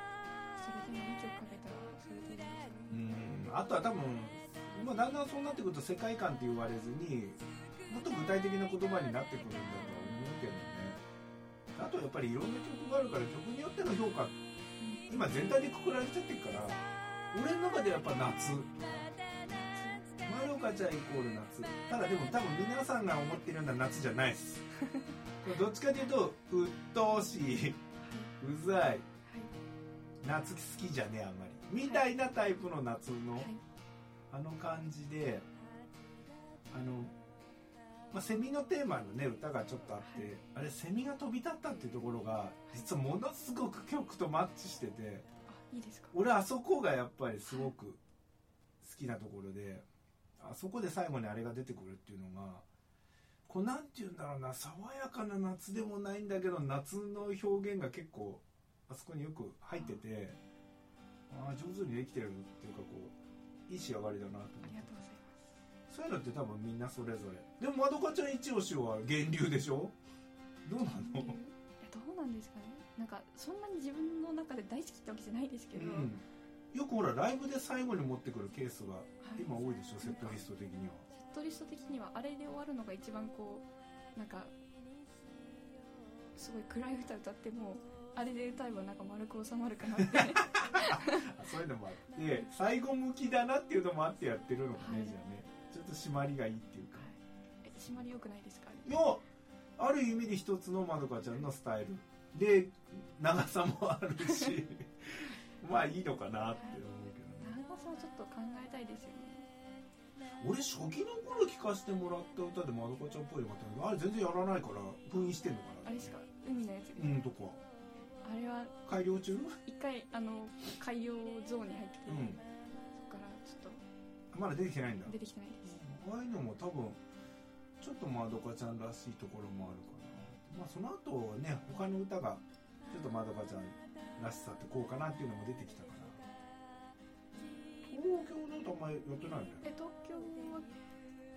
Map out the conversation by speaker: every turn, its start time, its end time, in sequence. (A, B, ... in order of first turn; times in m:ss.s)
0:00.6-0:02.9 A
0:02.9-0:11.0 B
0:11.7-0:14.4 B
0:14.8-0:15.3 A
0:15.1-0:19.1 B
0:19.5-0:20.1 A
0:20.2-0:24.6 B
0:24.8-0:25.1 A
0:25.4-0:27.8 B
0:28.0-0:28.3 A
0:28.4-0:29.1 B
0:29.2-0:29.5 A
0:30.2-0:33.5 B
0:33.4-0:33.6 A
0:34.3-0:35.5 B
0:36.7-0:37.1 B
0:38.1-0:45.2 B
0:45.5-0:46.2 A
0:46.1-0:48.0 B
0:47.5-0:47.7 A
0:48.8-0:49.8 B
0:50.4-0:52.6 B
0:53.5-1:00.4 B
1:01.3-1:03.1 B
1:03.7-1:04.9 B
1:04.6-1:05.5 A
1:05.9-1:09.9 B
1:10.6-1:11.4 B
1:10.8-1:16.1 A
1:15.7-1:21.0 B
1:19.2-1:19.5 A
1:20.0-1:20.4 A
1:21.1-1:24.5 A
1:26.3-1:31.3 A
1:30.0-1:37.1 B
1:34.8-1:35.1 A
1:37.0-1:39.0 A
1:37.8-1:38.2 B
1:38.8-1:39.2 B
1:39.8-1:47.5 B
1:47.4-1:49.5 A
1:50.4-1:56.1 B
1:55.8-1:57.2 A
1:57.0-1:57.6 B
1:58.2-1:58.8 A
1:58.8-1:59.6 B
1:59.6-2:02.4 A
2:02.1-2:02.4 B
2:02.9-2:03.8 A
2:04.3-2:07.0 B
2:05.0-2:05.8 A
2:07.8-2:16.2 B
2:17.9-2:19.6 B
2:19.6-2:20.7 A